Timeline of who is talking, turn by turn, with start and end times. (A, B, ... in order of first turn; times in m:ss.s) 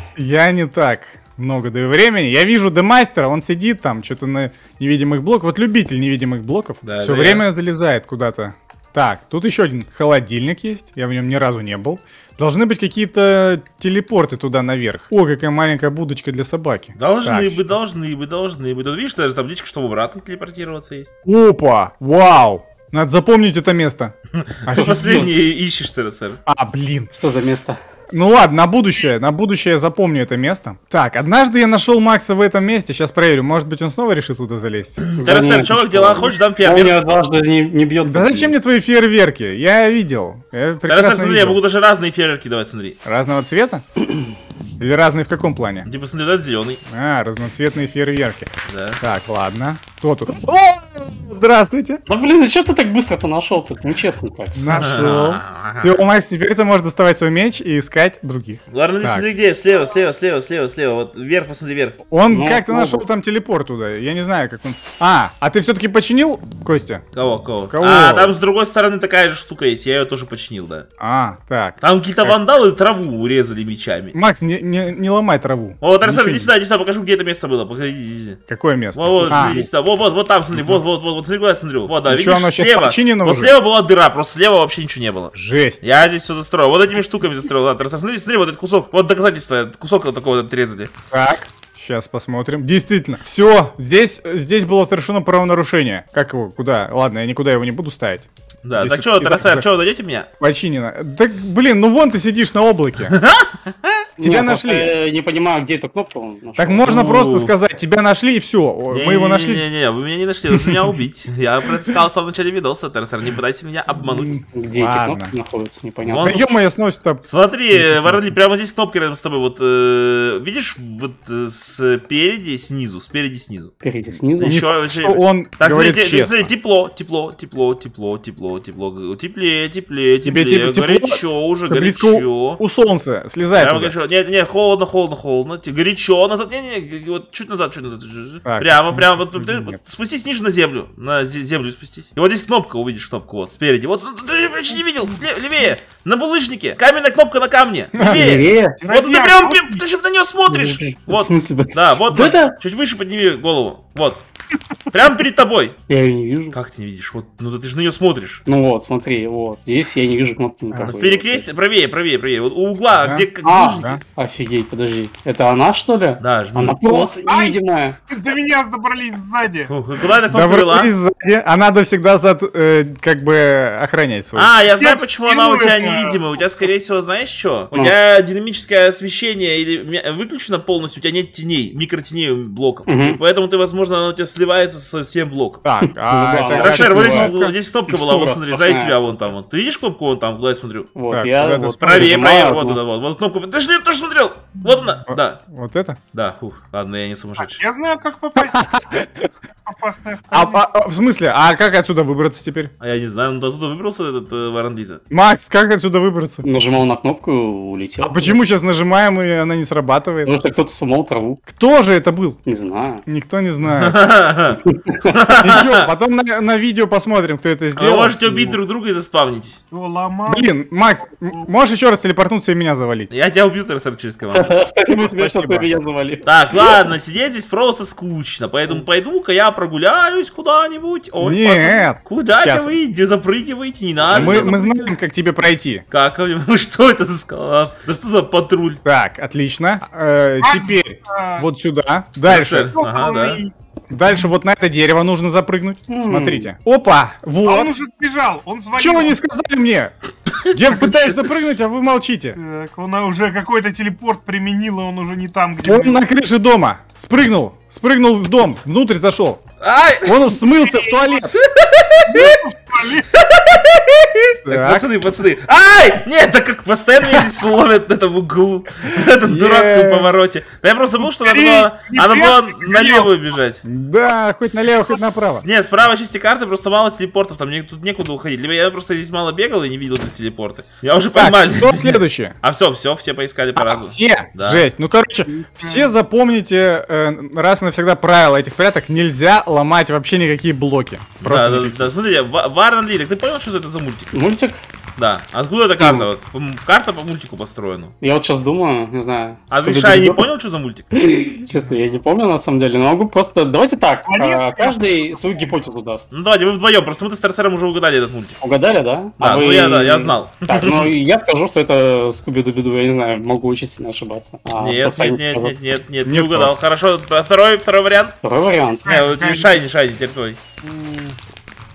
0:00.2-0:17.7 A
0:06.8-0:07.4 B
0:17.0-0:21.1 B
0:21.2-0:24.1 A
0:24.3-0:26.4 B
0:24.6-0:25.3 A
0:24.7-0:25.3 C
0:26.4-0:27.1 A
0:27.2-0:27.8 C
0:28.1-0:35.0 A
0:35.0-0:37.1 B
0:35.2-0:38.5 C
0:38.0-0:41.6 A
0:40.9-0:43.0 B
0:43.0-0:43.8 A
0:44.8-0:45.9 A
0:45.8-0:46.8 B
0:46.8-0:48.5 A
0:48.7-0:49.0 B
0:49.0-0:52.0 A
0:52.1-0:54.7 C
0:54.5-0:59.2 A
0:54.7-0:56.0 B
0:58.7-1:02.0 B
1:02.1-1:07.0 A
1:02.3-1:03.0 C
1:07.1-1:10.9 B
1:07.7-1:08.3 A
1:11.0-1:12.4 A
1:11.8-1:14.2 B
1:14.1-1:16.5 A
1:15.8-1:18.4 B
1:18.5-1:19.7 A
1:18.9-1:30.9 B
1:22.1-1:23.5 A
1:25.3-1:25.8 A
1:31.1-1:38.3 A
1:38.6-1:40.3 B
1:38.8-1:39.6 A
1:40.4-1:43.1 A
1:43.1-1:44.0 B
1:44.2-1:47.0 C
1:44.2-1:44.9 A
1:46.6-1:49.6 A
1:46.8-1:47.5 B
1:48.9-1:54.4 B
1:54.0-1:55.3 A
1:54.5-1:56.3 C
1:56.0-1:56.5 B
1:56.2-1:58.2 A
1:57.2-2:03.7 B
2:03.8-2:04.6 C
2:04.4-2:12.6 B
2:04.4-2:06.5 A
2:10.2-2:13.9 A
2:13.5-2:34.2 B
2:18.4-2:19.8 A
2:24.7-2:25.2 D
2:27.9-2:28.4 A
2:28.0-2:28.8 C
2:28.8-2:29.8 D
2:30.5-2:32.6 C
2:34.9-2:35.8 B
2:35.9-2:36.6 C
2:36.5-2:38.4 B
2:38.4-2:41.4 C
2:40.8-2:44.0 B
2:42.9-2:44.0 A
2:43.4-2:48.0 C
2:46.2-2:46.8 B
2:47.2-2:49.7 D
2:49.7-2:50.9 B
2:50.3-2:54.5 A
2:54.3-3:05.6 B
2:54.8-2:56.2 D
3:02.9-3:03.2 C
3:05.6-3:07.5 A
3:06.0-3:09.0 C
3:06.5-3:10.9 B
3:11.0-3:12.8 C
3:11.1-3:12.1 A
3:11.8-3:15.4 B
3:15.1-3:16.0 A
3:16.1-3:17.6 B
3:17.4-3:18.8 D
3:18.4-3:19.3 A
3:19.6-3:20.6 D
3:20.3-3:22.7 A
3:22.8-3:25.0 B
3:25.1-3:26.4 A
3:26.4-3:28.4 C
3:28.1-3:30.3 A
3:30.2-3:31.4 C
3:31.5-3:32.4 A
3:32.4-3:33.0 C
3:33.0-3:34.0 A
3:33.6-3:35.9 B
3:34.6-3:35.1 C
3:35.4-3:38.6 A
3:37.8-3:39.6 B
3:39.7-3:40.6 D
3:40.3-3:43.1 A
3:41.1-3:41.5 D
3:43.1-3:44.6 B
3:44.3-3:46.7 C
3:44.9-3:45.7 A
3:46.2-3:54.9 B
3:51.2-3:52.7 A
3:54.1-3:55.8 A
3:55.9-3:58.8 B
3:58.8-4:02.7 A
4:00.4-4:01.5 D
4:02.3-4:03.4 B
4:02.7-4:03.5 D
4:03.9-4:07.7 A
4:05.9-4:06.5 C
4:07.4-4:09.2 D
4:08.8-4:12.4 A
4:10.4-4:11.1 B
4:12.3-4:16.0 D
4:15.6-4:19.4 A
4:19.6-4:20.3 B
4:20.0-4:21.4 A
4:20.6-4:21.2 D
4:21.4-4:22.3 B
4:22.0-4:23.1 D
4:23.1-4:33.6 B
4:24.4-4:24.8 A
4:28.9-4:30.2 A
4:31.0-4:33.1 D
4:33.6-4:35.4 A
4:34.4-4:44.6 B
4:41.1-4:42.3 A
4:43.6-4:51.9 A
4:45.3-4:45.9 D
4:51.2-4:54.1 B
4:54.1-4:54.6 C
4:55.0-4:57.9 B
4:55.8-4:56.1 C
4:58.0-5:00.2 C
4:59.5-5:00.9 B
5:00.9-5:06.1 C
5:04.1-5:05.6 D
5:06.1-5:08.4 B
5:08.4-5:15.5 C
5:09.2-5:10.9 B
5:14.6-5:18.2 B
5:16.0-5:16.5 A
5:18.2-5:18.8 C
5:18.8-5:19.6 D
5:18.8-5:20.4 B
5:20.6-5:21.2 D